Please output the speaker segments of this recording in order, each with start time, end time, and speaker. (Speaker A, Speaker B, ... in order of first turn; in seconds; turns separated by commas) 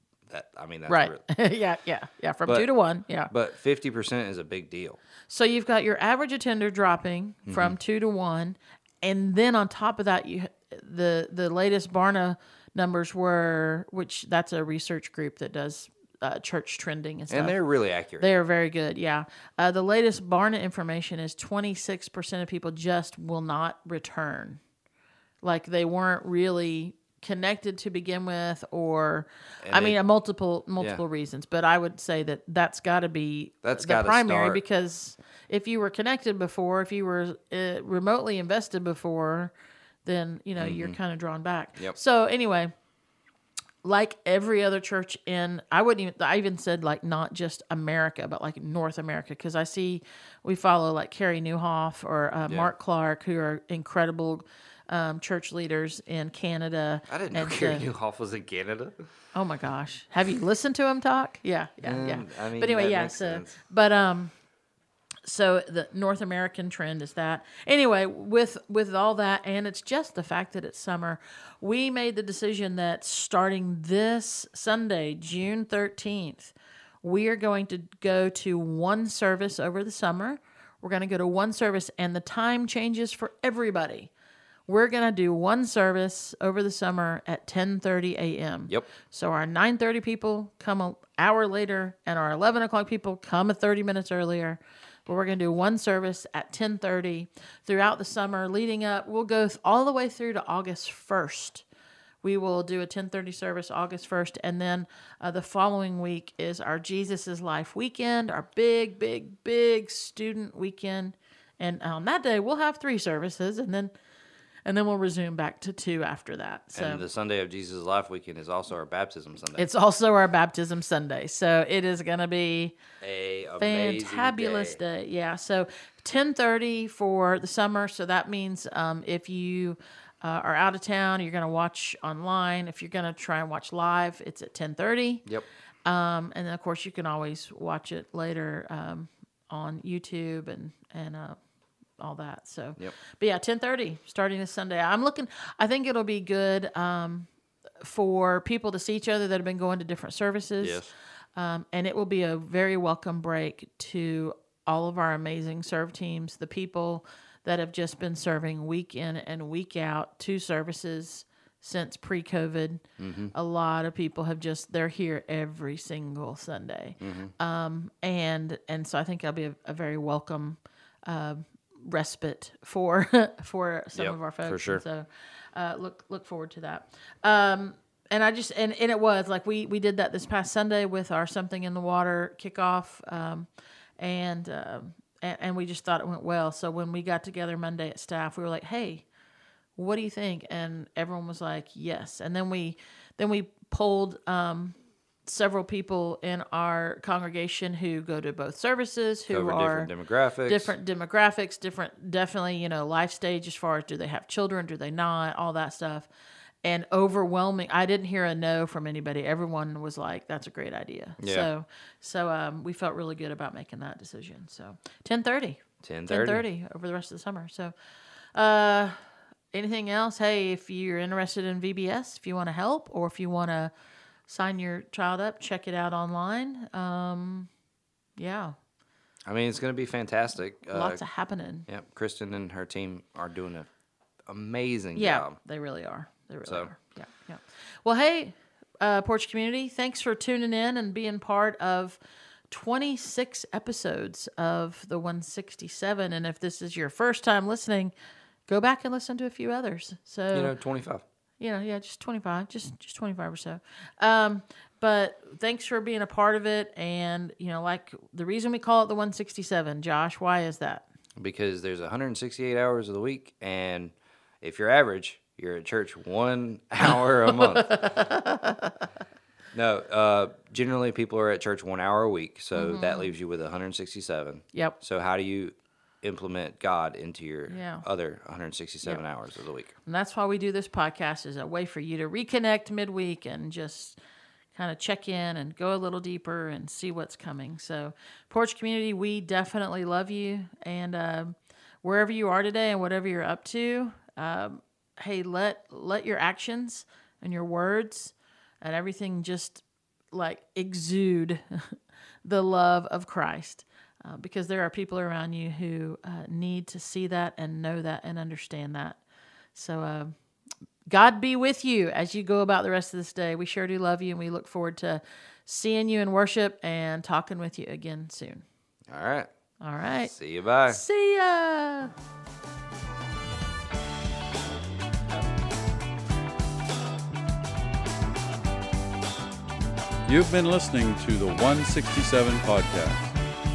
Speaker A: 0.3-1.2, Speaker B: 0.9-3.3, Speaker A: 2.5-5.0, Speaker B: 5.3-17.6, Speaker A: 7.5-7.8, Speaker A: 17.3-18.3, Speaker B: 18.2-24.6, Speaker B: 25.4-39.5, Speaker A: 29.6-30.0, Speaker A: 33.6-34.6, Speaker B: 40.0-42.7, Speaker A: 40.6-41.0, Speaker B: 43.8-57.9, Speaker A: 52.5-52.7, Speaker A: 57.1-59.0, Speaker B: 59.3-64.4, Speaker A: 61.8-63.5, Speaker B: 65.2-84.1, Speaker B: 84.7-101.7, Speaker B: 102.2-113.9, Speaker B: 114.7-117.0, Speaker A: 116.7-119.7, Speaker B: 119.6-122.8, Speaker A: 123.0-124.8, Speaker B: 123.6-135.3, Speaker B: 135.9-141.4, Speaker B: 142.0-147.3, Speaker B: 147.8-150.8, Speaker A: 150.6-150.9, Speaker B: 151.4-183.5, Speaker A: 163.0-163.3, Speaker A: 167.0-167.3, Speaker A: 173.9-174.8, Speaker B: 184.0-189.1, Speaker B: 189.8-199.9, Speaker A: 199.3-200.7, Speaker B: 200.5-206.1, Speaker B: 206.6-217.7, Speaker A: 211.2-211.5, Speaker A: 215.8-216.4, Speaker B: 218.3-219.0, Speaker B: 219.5-223.7, Speaker B: 224.3-227.5, Speaker B: 228.2-228.6, Speaker A: 229.3-231.0, Speaker B: 230.7-231.7, Speaker A: 231.7-233.7, Speaker A: 234.3-235.4, Speaker B: 234.9-242.0, Speaker A: 236.5-236.7, Speaker B: 242.5-247.9, Speaker B: 248.5-250.5, Speaker A: 250.3-251.0, Speaker B: 251.4-260.9, Speaker A: 261.2-267.9, Speaker B: 267.3-268.8, Speaker A: 269.5-279.7, Speaker B: 272.6-273.1, Speaker B: 277.5-277.8, Speaker B: 279.9-284.0, Speaker B: 284.6-309.0, Speaker B: 309.5-310.2, Speaker B: 310.9-318.4, Speaker A: 318.9-319.3, Speaker B: 319.6-320.1, Speaker A: 320.0-320.8, Speaker B: 320.7-321.9, Speaker C: 330.1-333.0